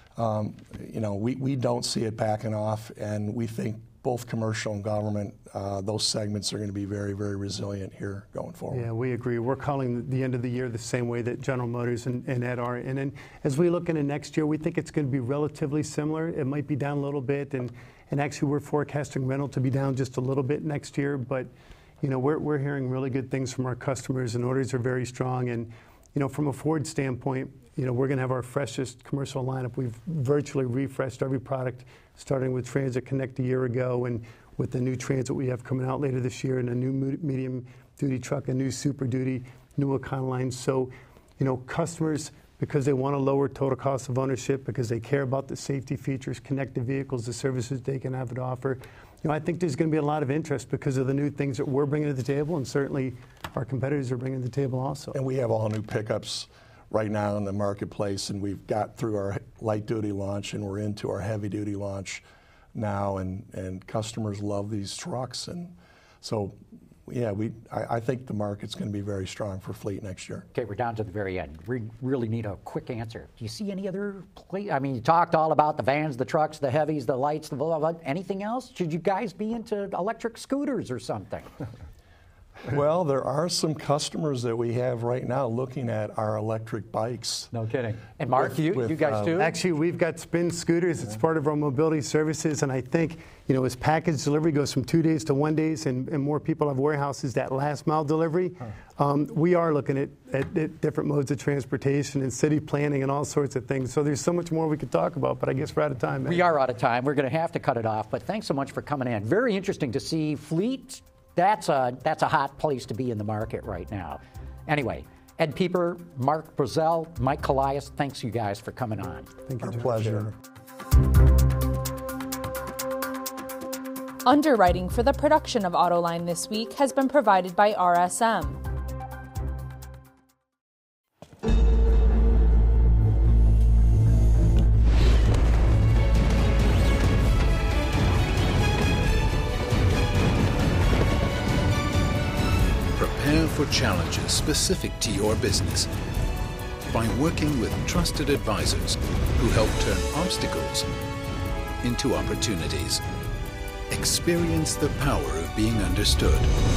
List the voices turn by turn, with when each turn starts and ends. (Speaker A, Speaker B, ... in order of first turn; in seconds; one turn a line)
Speaker A: 0.1-8.9
Speaker B: 8.7-21.5
Speaker B: 22.0-55.1
Speaker A: 55.1-70.5
Speaker C: 70.5-81.5
Speaker A: 82.6-87.5
Speaker C: 87.5-89.6
Speaker A: 88.4-89.3
Speaker B: 89.3-106.5
Speaker C: 106.2-119.3
Speaker B: 119.5-120.3
Speaker A: 119.6-120.3
Speaker D: 124.2-128.6
Speaker E: 142.9-145.9
Speaker E: 146.9-150.9
Speaker E: 151.8-153.0
Speaker E: 153.9-156.5